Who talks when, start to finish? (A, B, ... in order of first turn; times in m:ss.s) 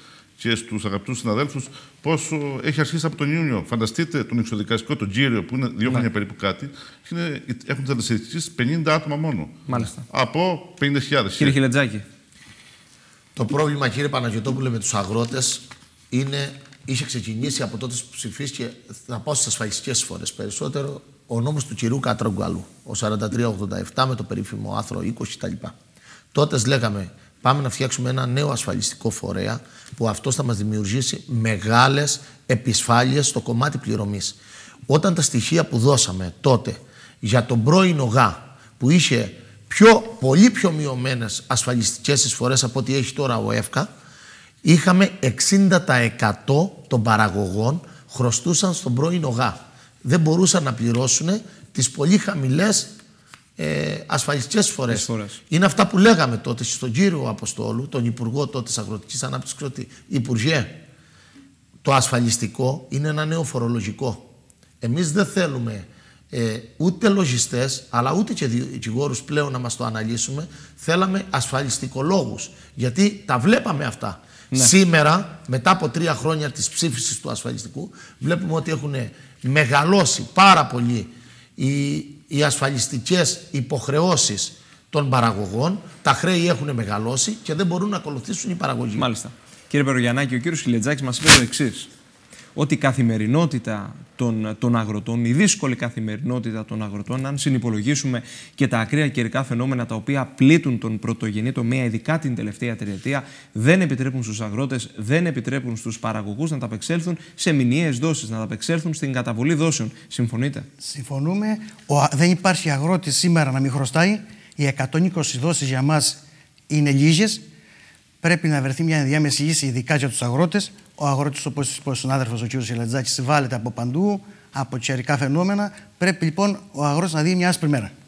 0:00.4-0:11.6 A
0:09.7-0:10.0 B
0:11.4-0:12.0 B
0:13.3-0:25.8 C
0:26.3-0:34.4 C
0:34.9-0:43.9 C
0:44.6-0:53.0 C
0:53.6-1:00.8 C
0:54.9-0:55.4 B
1:01.8-1:29.1 C
1:29.0-1:31.9 B
1:32.5-1:50.7 B
1:50.8-1:57.4 D
1:58.2-2:07.9 D